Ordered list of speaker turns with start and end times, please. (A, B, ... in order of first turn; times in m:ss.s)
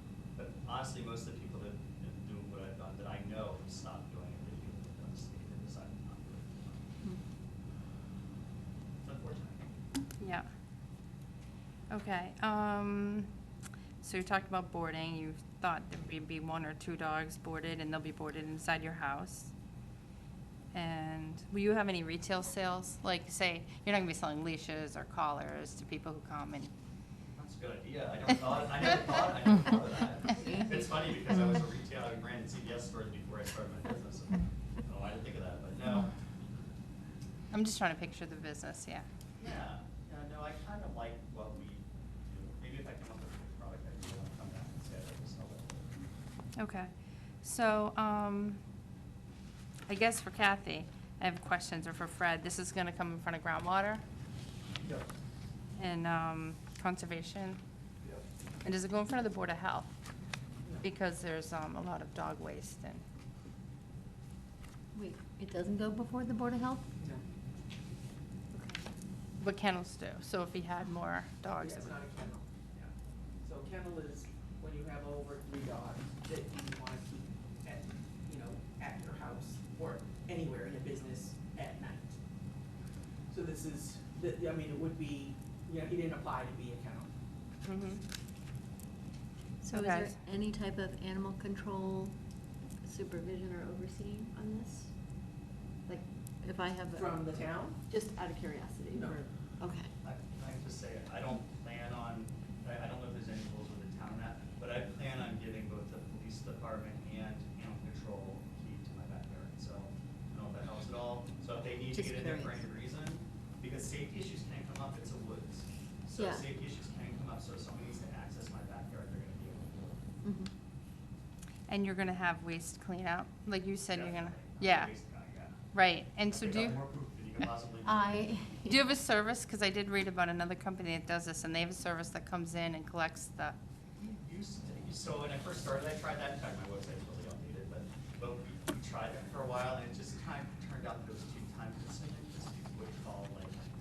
0:00.4-0:06.9 A
0:09.0-0:09.7 A
0:10.2-0:10.5 B
0:11.9-0:13.3 B
0:14.0-0:19.5 B
0:20.7-0:26.7 B
0:27.4-0:36.1 A
0:37.5-0:39.0 B
0:39.4-0:45.9 A
0:46.6-0:46.9 B
0:47.4-0:48.6 B
0:49.9-0:54.0 B
0:55.8-0:57.6 B
0:58.6-0:59.9 B
1:00.8-1:03.0 B
1:04.9-1:06.9 C
1:07.0-1:07.2 D
1:08.5-1:08.8 C
1:09.4-1:12.0 B
1:11.6-1:12.9 D
1:13.4-1:22.2 D
1:23.3-1:27.1 D
1:27.6-1:28.0 B
1:29.6-1:32.1 C
1:29.7-1:30.1 B
1:32.8-1:34.9 C
1:35.9-1:37.2 C
1:36.9-1:37.8 D
1:37.9-1:39.9 C
1:38.9-1:39.2 D
1:40.0-2:00.0 A
1:51.8-1:52.6 C
1:56.2-1:56.4 C
2:00.2-2:00.5 C
2:01.7-2:04.9 B
2:03.9-2:05.6 A
2:05.7-2:06.8 B
2:06.3-2:08.6 A
2:07.8-2:08.8 C
2:08.6-2:13.6 B
2:14.0-2:23.7 A